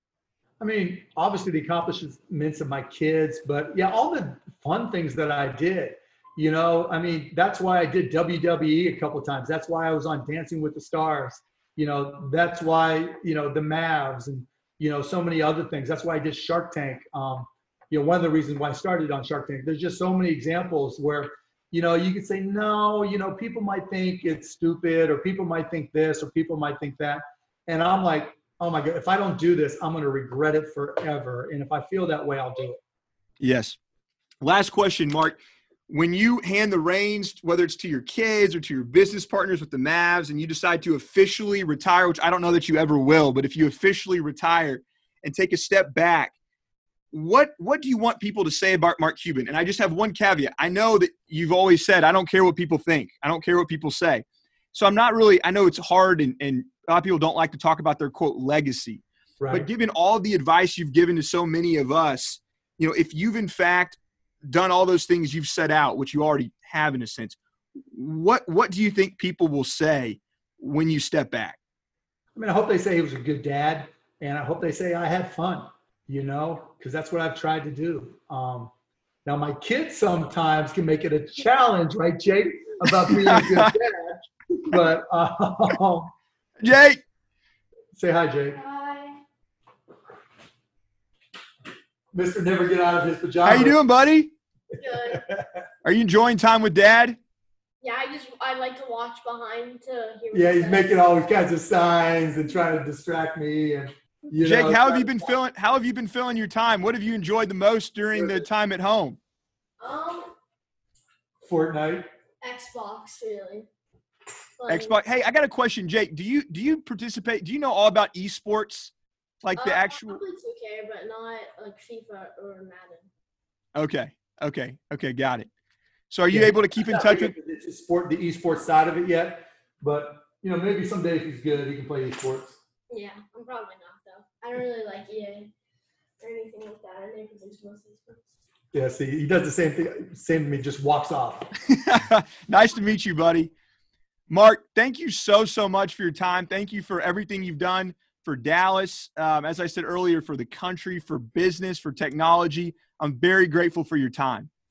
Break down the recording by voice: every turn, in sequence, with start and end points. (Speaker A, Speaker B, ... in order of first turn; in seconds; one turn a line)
Speaker A: 0.6-32.8
Speaker B: 33.4-33.8
Speaker B: 34.4-35.4
Speaker B: 35.9-46.3
Speaker B: 47.1-67.4
Speaker A: 59.4-59.7
Speaker B: 67.9-71.6
Speaker A: 72.3-78.7
Speaker A: 79.2-86.1
Speaker B: 82.9-83.7
Speaker B: 86.6-87.0
Speaker A: 87.9-88.6
Speaker C: 88.6-89.2
Speaker A: 92.1-93.8
Speaker B: 93.5-94.3
Speaker C: 94.8-95.2
Speaker A: 95.1-95.5
Speaker B: 95.8-97.2
Speaker C: 97.8-101.0
Speaker A: 100.3-105.3
Speaker B: 104.4-109.2
Speaker A: 108.1-108.5
Speaker C: 109.8-110.3
Speaker A: 111.4-112.1
Speaker C: 112.4-113.7
Speaker C: 114.6-114.9
Speaker B: 114.7-118.9
Speaker B: 119.4-120.2
Speaker C: 119.6-123.1
Speaker B: 123.8-125.5
Speaker B: 126.1-127.3
Speaker A: 126.3-132.6
Speaker C: 132.9-135.5
Speaker C: 136.2-138.3
Speaker A: 138.7-141.5
Speaker B: 141.7-143.5
Speaker B: 144.3-154.5